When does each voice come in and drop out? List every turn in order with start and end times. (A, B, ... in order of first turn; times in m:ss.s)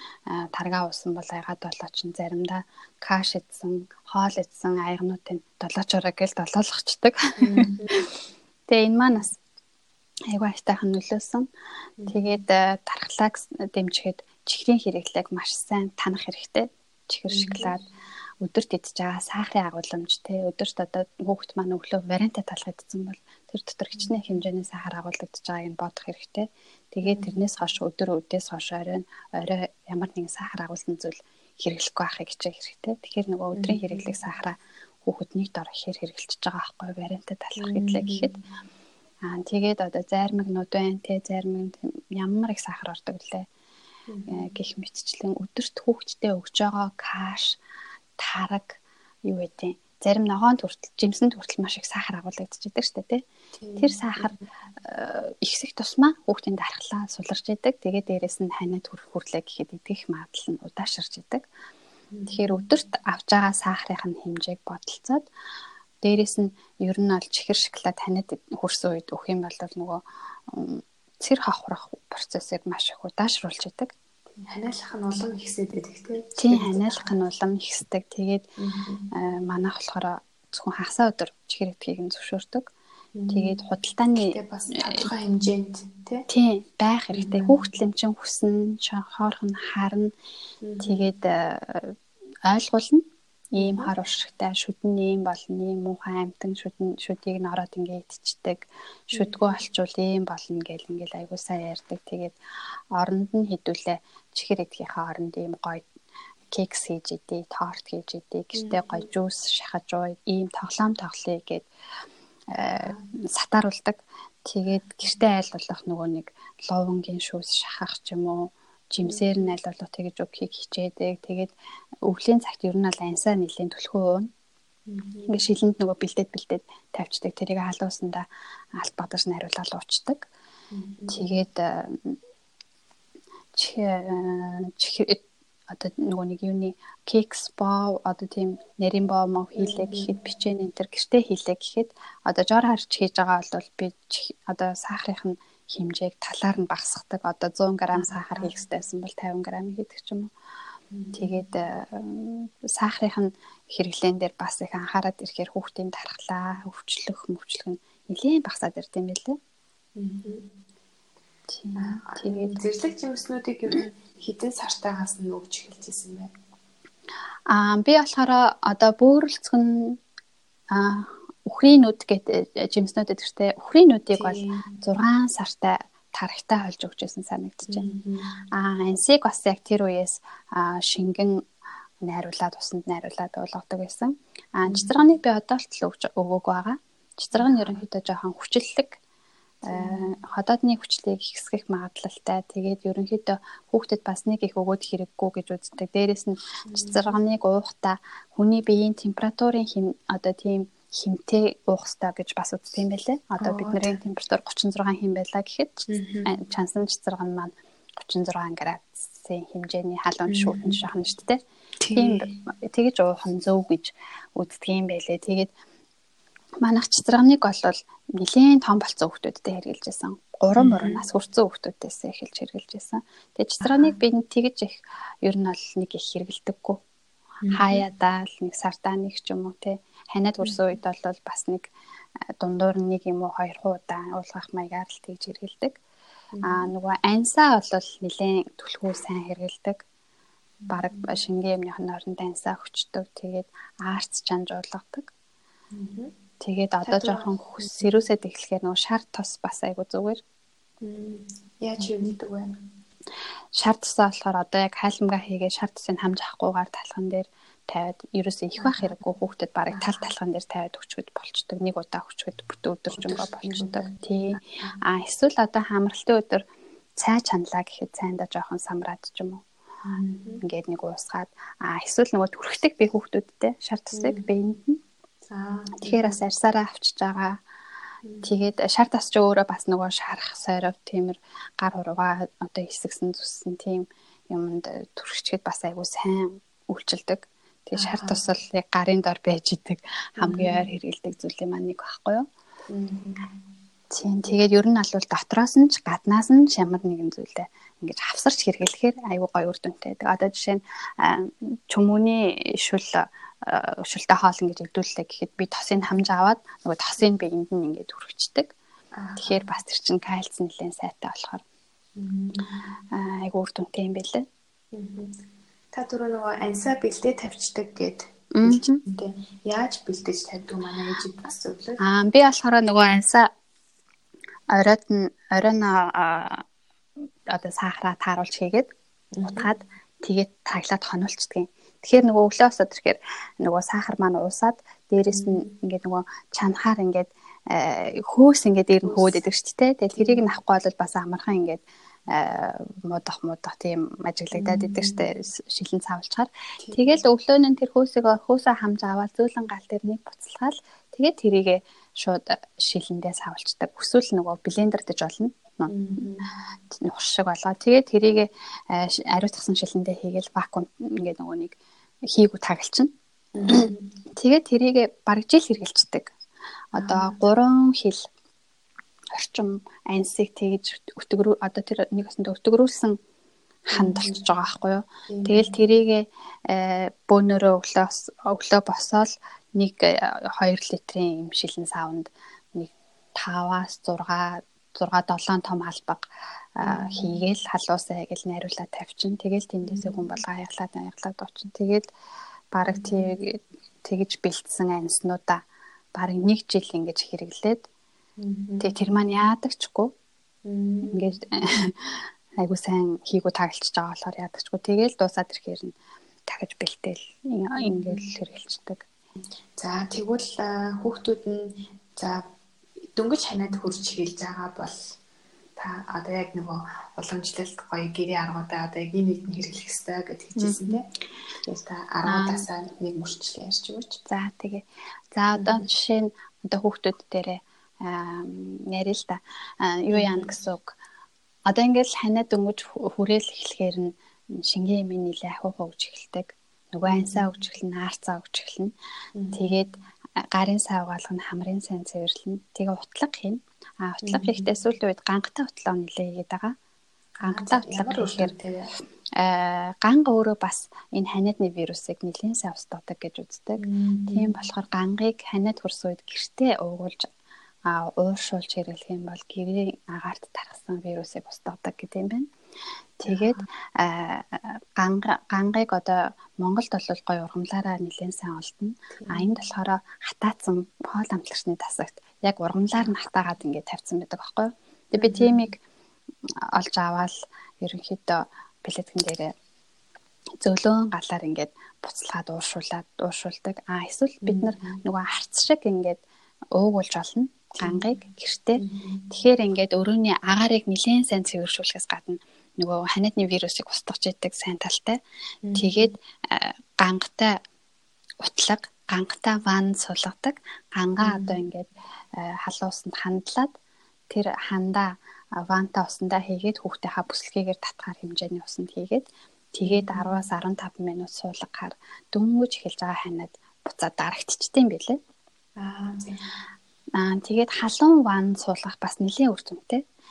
0:00.3-0:08.1 A
0:07.4-0:07.9 B
0:08.7-0:09.4 A
0:10.3-0:11.5 A
0:12.0-0:12.4 B
0:12.1-0:17.8 A
0:17.3-0:17.7 B
0:18.4-0:38.3 A
0:27.0-0:27.3 B
0:33.5-0:34.1 B
0:37.6-0:38.4 B
0:39.2-0:43.4 A
0:44.1-0:44.4 B
0:44.3-0:47.6 A
0:48.2-0:53.2 A
0:53.6-0:54.4 B
0:53.8-1:01.4 A
1:02.1-1:02.6 B
1:02.3-1:05.3 A
1:06.0-1:13.9 A
1:14.4-1:17.1 B
1:16.4-1:18.4 A
1:18.6-1:19.1 B
1:19.1-1:22.7 A
1:23.2-1:23.6 B
1:23.3-1:25.1 A
1:24.2-1:26.2 B
1:26.3-1:30.1 A
1:27.1-1:27.6 B
1:30.6-1:31.0 B
1:30.8-1:42.3 A
1:33.6-1:33.9 B
1:39.1-1:39.6 B
1:42.9-1:45.8 A
1:46.5-1:51.6 A
1:48.5-1:49.1 B
1:52.5-2:04.3 A
1:52.7-1:53.1 B
1:59.0-1:59.5 B
2:04.9-2:05.3 B
2:05.3-2:10.2 A
2:10.7-2:11.2 B
2:11.1-2:12.2 A
2:13.6-2:30.3 A
2:19.6-2:20.1 B
2:27.9-2:28.5 B
2:30.9-2:31.4 B
2:31.1-2:39.4 A
2:40.0-2:40.4 B
2:41.5-2:42.6 A
2:41.8-2:46.3 B
2:47.5-2:50.0 A
2:50.7-2:57.8 A
2:54.1-2:54.7 B
2:57.7-2:58.4 B
2:58.5-3:01.5 A
3:02.0-3:09.0 A
3:07.3-3:07.8 B
3:09.7-3:31.4 A
3:09.7-3:10.1 B
3:16.7-3:17.2 B
3:23.4-3:24.0 B
3:25.9-3:26.3 B
3:30.3-3:30.8 B
3:31.8-3:32.3 B
3:31.9-3:35.5 A
3:36.6-3:46.8 A
3:40.6-3:41.0 B
3:43.6-3:43.9 B
3:47.4-3:47.8 B
3:47.5-3:51.7 A
3:52.4-3:55.8 A
3:56.3-3:56.7 B
3:56.4-3:59.8 A
4:00.6-4:01.0 B
4:00.7-4:05.1 A
4:05.7-4:06.1 B
4:06.4-4:10.2 A
4:06.8-4:07.3 B
4:10.8-4:12.5 B
4:13.5-4:26.4 A
4:18.6-4:18.9 B
4:19.7-4:20.0 B
4:22.9-4:23.9 B
4:27.0-4:29.4 A
4:29.8-4:30.4 B
4:30.4-4:34.8 A
4:33.9-4:34.2 B
4:35.3-4:36.2 B
4:35.8-4:37.4 A
4:38.2-4:52.2 A
4:47.8-4:48.2 B
4:50.2-4:50.7 B
4:52.7-4:53.2 B
4:53.9-5:08.5 A
5:09.0-5:09.4 B
5:09.2-5:11.4 A
5:12.0-5:12.7 B
5:12.9-5:14.2 A
5:14.7-5:15.2 B
5:15.7-5:21.8 B
5:18.4-5:18.8 A
5:21.8-5:23.3 A
5:24.5-5:26.4 A
5:27.3-5:28.7 A
5:29.2-5:29.5 B
5:29.2-5:56.0 A
5:35.1-5:35.5 B
5:38.8-5:39.2 B
5:40.0-5:40.2 B
5:44.3-5:45.0 B
5:46.6-5:47.0 B
5:55.7-5:56.2 B
5:56.7-6:01.6 A
6:02.1-6:02.9 A
6:03.3-6:03.9 B
6:03.5-6:06.1 A
6:06.7-6:08.1 A
6:06.7-6:07.2 B
6:09.1-6:13.0 A
6:13.7-6:26.0 A
6:13.7-6:14.2 B
6:15.1-6:15.5 B
6:26.6-6:31.9 A
6:26.6-6:27.1 B
6:29.6-6:30.0 B
6:32.5-6:35.4 A
6:32.7-6:33.2 B
6:35.9-6:37.6 A
6:38.2-6:38.7 B
6:38.6-6:39.9 A
6:40.4-6:41.1 B
6:40.9-6:45.7 A
6:46.3-6:48.8 A
6:47.6-6:48.0 B
6:49.6-6:52.2 B
6:52.9-6:54.9 B
6:55.6-7:00.8 B
7:00.4-7:00.8 A
7:01.4-7:04.0 B
7:02.0-7:02.4 A
7:04.1-7:10.7 A
7:05.4-7:05.6 B
7:09.9-7:10.3 B
7:11.5-7:18.7 A
7:16.9-7:17.2 B
7:19.2-7:19.6 B
7:19.3-7:19.7 A
7:20.3-7:26.5 A
7:24.0-7:24.5 B
7:27.2-7:28.3 A
7:27.2-7:28.7 B
7:29.2-7:37.1 A
7:33.6-7:34.3 B
7:37.6-7:42.3 A
7:43.0-7:55.6 A
7:43.1-7:43.4 B
7:49.0-7:49.3 B
7:55.0-7:55.4 B
7:56.5-7:59.3 A
8:00.4-8:06.0 A
8:04.2-8:04.8 B
8:06.5-8:15.0 A
8:08.6-8:09.1 B
8:15.4-8:15.9 B
8:15.5-8:17.4 A
8:18.2-8:23.5 A
8:21.0-8:21.4 B
8:24.1-8:35.0 A
8:29.6-8:30.1 B
8:35.6-8:36.3 B
8:37.0-8:39.8 A